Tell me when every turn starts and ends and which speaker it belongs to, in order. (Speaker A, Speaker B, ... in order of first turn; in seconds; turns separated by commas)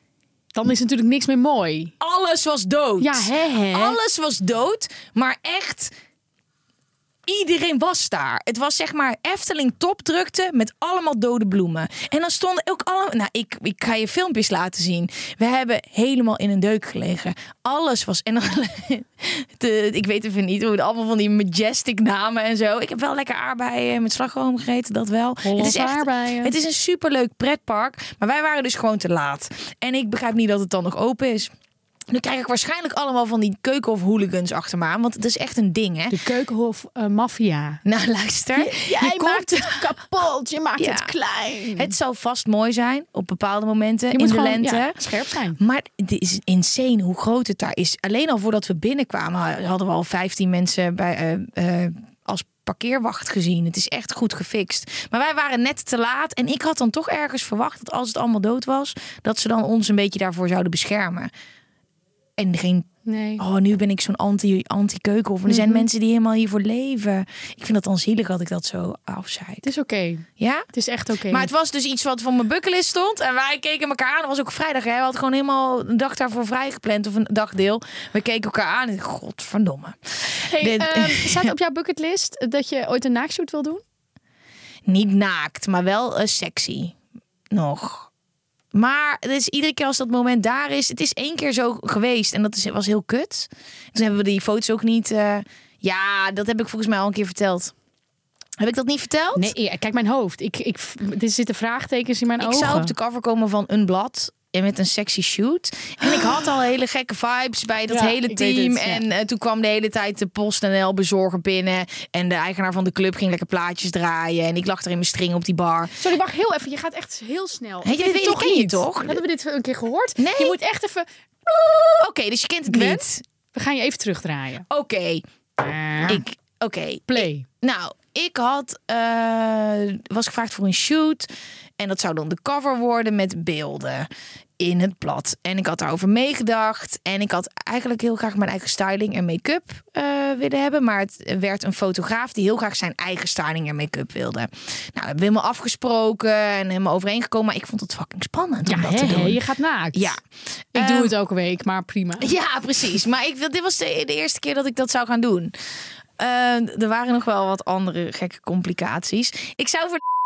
Speaker A: 0.5-1.9, Speaker B: 2.0-5.9, Speaker A: 3.0-4.0, Speaker B: 7.2-31.5, Speaker A: 25.4-26.5, Speaker B: 32.1-36.2, Speaker A: 36.1-37.8, Speaker B: 37.8-39.9, Speaker A: 38.5-41.9, Speaker B: 40.8-41.1, Speaker B: 41.7-45.0, Speaker A: 44.1-45.6, Speaker B: 45.6-61.3, Speaker B: 62.4-69.7, Speaker A: 63.0-63.4, Speaker A: 65.5-65.8, Speaker A: 69.6-71.5, Speaker B: 70.4-70.7, Speaker B: 71.3-81.5, Speaker A: 80.3-83.8, Speaker B: 84.8-87.0, Speaker B: 87.5-88.1, Speaker B: 88.7-97.7, Speaker B: 98.6-99.5, Speaker A: 99.3-102.9, Speaker B: 102.4-116.0, Speaker A: 106.0-106.3, Speaker A: 107.9-109.0, Speaker A: 116.0-122.0, Speaker B: 117.8-119.2, Speaker B: 120.2-120.6, Speaker B: 122.0-123.2, Speaker A: 122.7-124.7, Speaker B: 124.7-125.2, Speaker A: 125.6-126.2, Speaker B: 126.0-149.4, Speaker A: 127.1-127.5, Speaker A: 148.7-150.2, Speaker B: 149.9-151.1, Speaker A: 150.7-152.3, Speaker B: 152.2-155.5, Speaker B: 156.2-160.0